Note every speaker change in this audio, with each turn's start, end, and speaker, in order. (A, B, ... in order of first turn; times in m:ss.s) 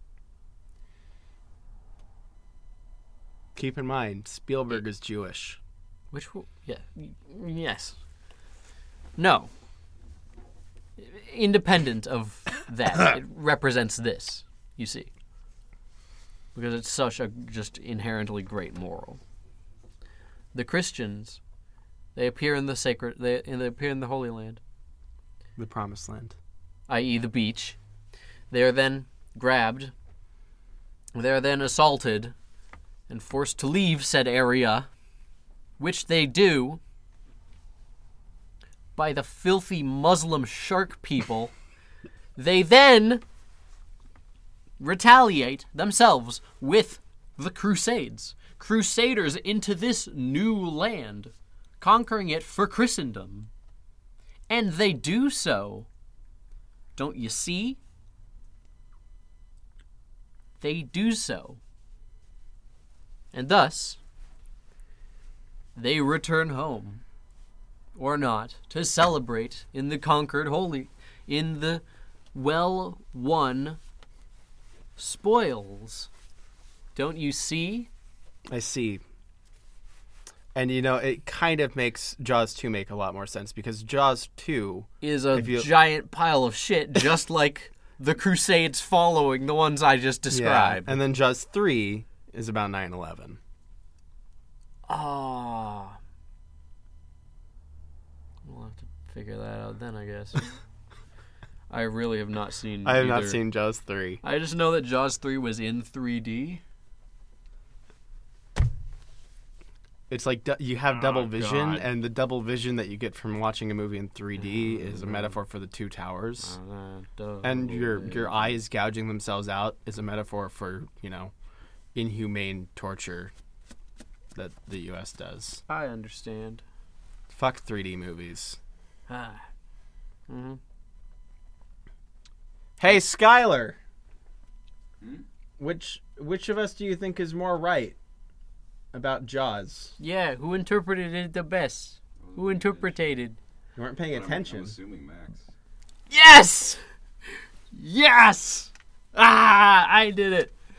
0:03.5-0:05.6 A
0:06.1-0:08.0 B
0:09.2-0:09.5 B
0:11.0-0:15.1 B
0:16.5-0:19.2 B
0:20.5-0:21.4 B
0:22.1-0:24.6 B
0:25.6-0:26.4 A
0:26.9-0:27.8 B
0:28.5-0:29.9 B
0:31.1-0:32.3 B
0:33.1-0:34.9 B
0:35.8-0:36.8 B
0:39.0-0:41.5 B
0:42.4-0:43.2 B
0:44.8-0:53.5 B
0:54.5-0:55.9 B
0:57.0-0:57.8 B
1:00.6-1:01.6 B
1:03.3-1:04.0 B
1:05.8-1:07.0 B
1:08.0-1:11.8 B
1:12.3-1:13.8 B
1:15.0-1:16.1 B
1:16.9-1:17.9 B
1:18.5-1:19.0 A
1:20.5-1:25.7 A
1:25.0-1:31.0 B
1:30.3-1:33.4 A
1:34.9-1:36.0 B
1:38.4-1:40.5 B
1:41.7-1:43.4 B
1:42.8-1:44.2 A
1:44.2-1:46.6 B
1:50.1-1:56.6 A
1:50.9-1:51.9 B
1:54.4-1:55.4 B
1:56.4-1:58.6 B
1:57.4-2:01.3 A
2:01.9-2:03.3 A
2:04.3-2:05.6 A
2:05.7-2:06.6 B
2:07.3-2:08.6 A
2:09.1-2:09.4 B
2:10.3-2:10.6 B
2:12.8-2:13.8 A
2:15.6-2:18.0 A
2:18.9-2:19.9 A
2:20.0-2:23.4 B
2:22.2-2:23.0 C
2:23.8-2:24.8 A
2:24.1-2:25.5 C
2:26.1-2:26.8 B
2:27.7-2:30.5 B